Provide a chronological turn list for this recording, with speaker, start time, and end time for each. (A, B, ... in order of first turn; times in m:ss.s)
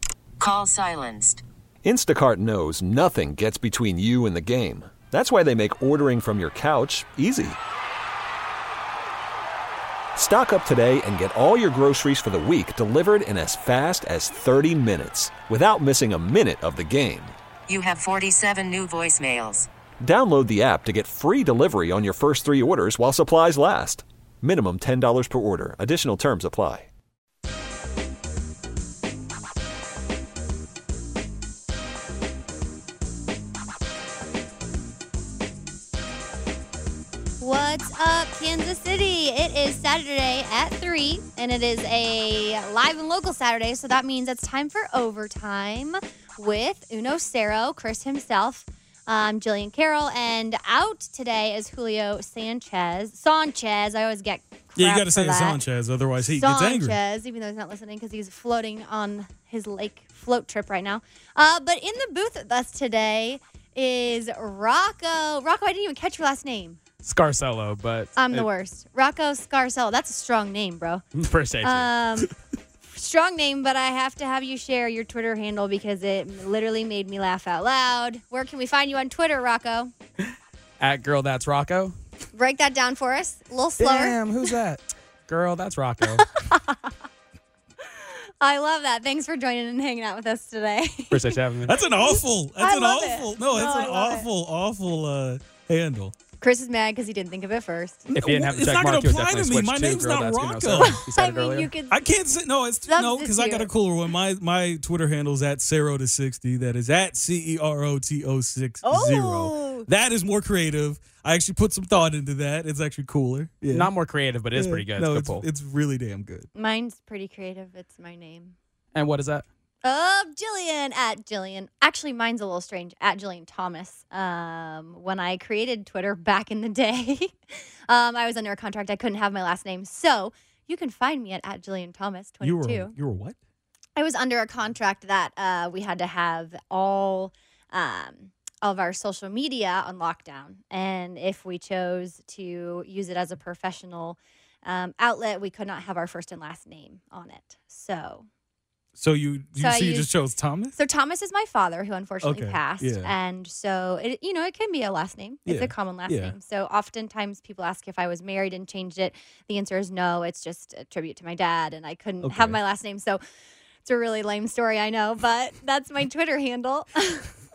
0:00.4-0:01.4 A
0:01.8-0:07.6 B
0:10.1-0:17.3 B
0:17.7-0:19.7 A
0:20.0-0:26.9 B
0:37.4-0:55.6 C
0:54.8-0:57.0 D
0:56.2-1:06.8 C
1:07.0-1:08.4 E
1:08.2-1:11.0 C
1:11.1-1:11.9 E
1:11.6-1:12.3 C
1:12.8-1:19.9 C
1:20.8-1:21.9 E
1:22.3-1:24.2 C
1:23.8-1:26.3 E
1:26.2-1:26.9 C
1:27.9-1:34.3 C
1:31.1-1:31.8 E
1:31.6-1:36.1 D
1:36.4-1:38.0 C
1:38.0-1:41.0 D
1:38.1-1:41.7 E
1:40.8-1:42.0 C
1:41.9-1:53.9 D
1:42.9-1:43.7 C
1:48.8-1:49.9 C
1:53.7-1:55.4 E
1:54.5-1:56.5 D
1:56.5-1:58.5 C
1:58.9-1:59.4 E
1:59.8-2:12.9 C
2:12.4-2:13.4 D
2:14.0-2:28.2 C
2:28.9-2:30.7 D
2:29.6-2:30.1 C
2:30.7-2:43.2 C
2:32.2-2:33.1 D
2:35.4-2:36.4 D
2:42.2-2:42.6 D
2:43.8-2:47.3 C